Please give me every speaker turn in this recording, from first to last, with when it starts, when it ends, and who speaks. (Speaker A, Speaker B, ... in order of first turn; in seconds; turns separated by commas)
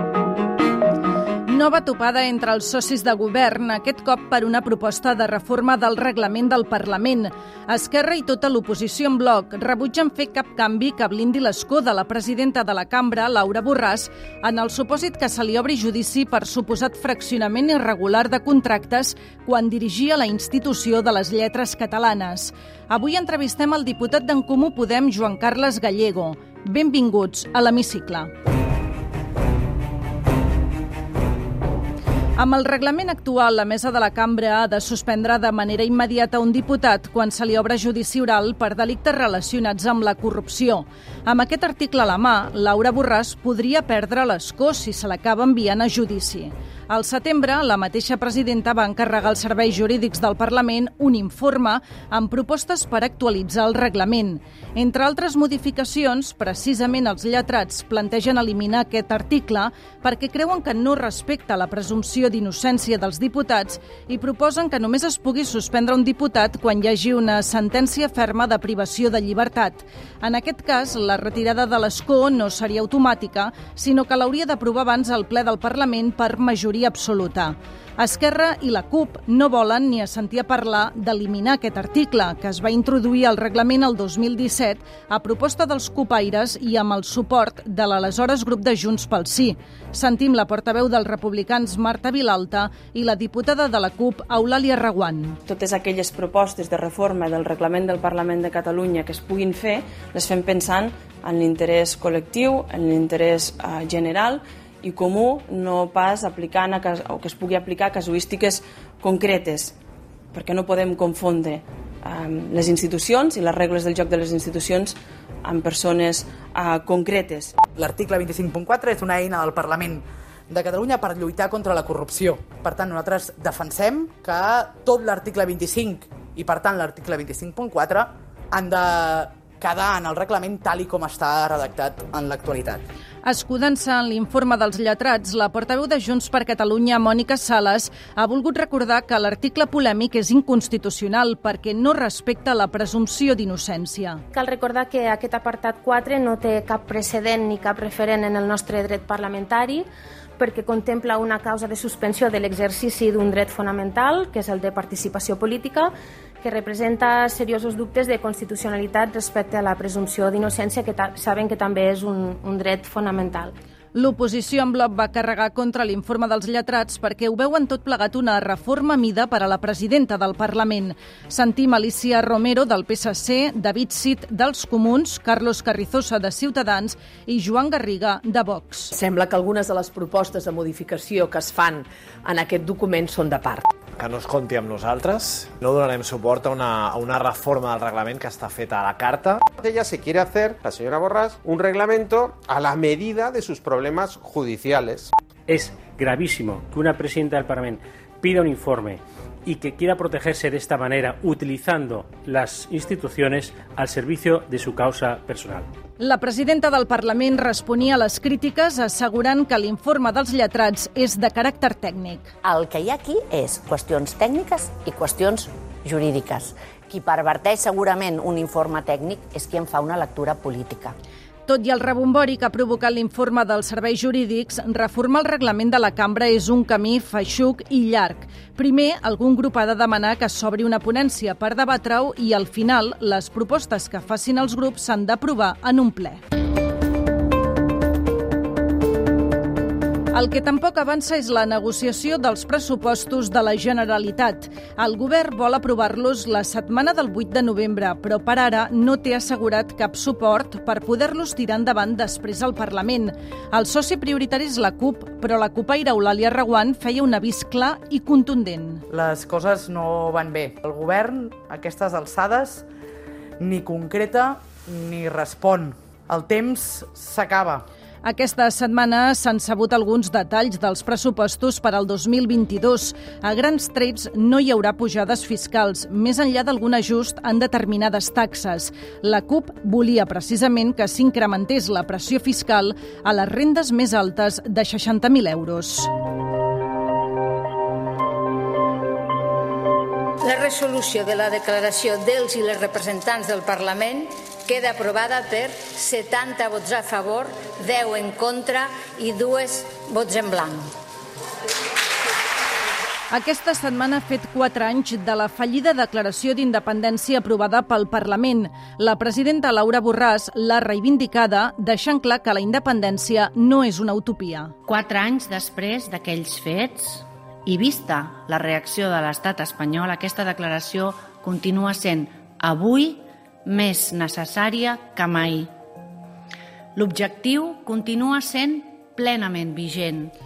Speaker A: 1.5-28.3, Speaker A: 32.4-95.4, Speaker B: 95.5-109.7, Speaker B: 110.3-117.5, Speaker C: 117.8-132.8, Speaker A: 133.2-144.2, Speaker D: 144.3-163.6, Speaker A: 163.9-178.9, Speaker E: 178.9-183.6, Speaker F: 184.0-189.4, Speaker G: 189.6-195.1, Speaker H: 195.5-205.7, Speaker A: 206.0-212.3, Speaker I: 212.4-220.9, Speaker A: 221.5-236.2, Speaker A: 240.1-258.8, Speaker C: 258.9-262.6, Speaker C: 263.4-267.6, Speaker A: 268.0-285.9, Speaker J: 290.2-300.7, Speaker A: 303.1-314.5, Speaker K: 314.7-325.5, Speaker K: 326.7-330.1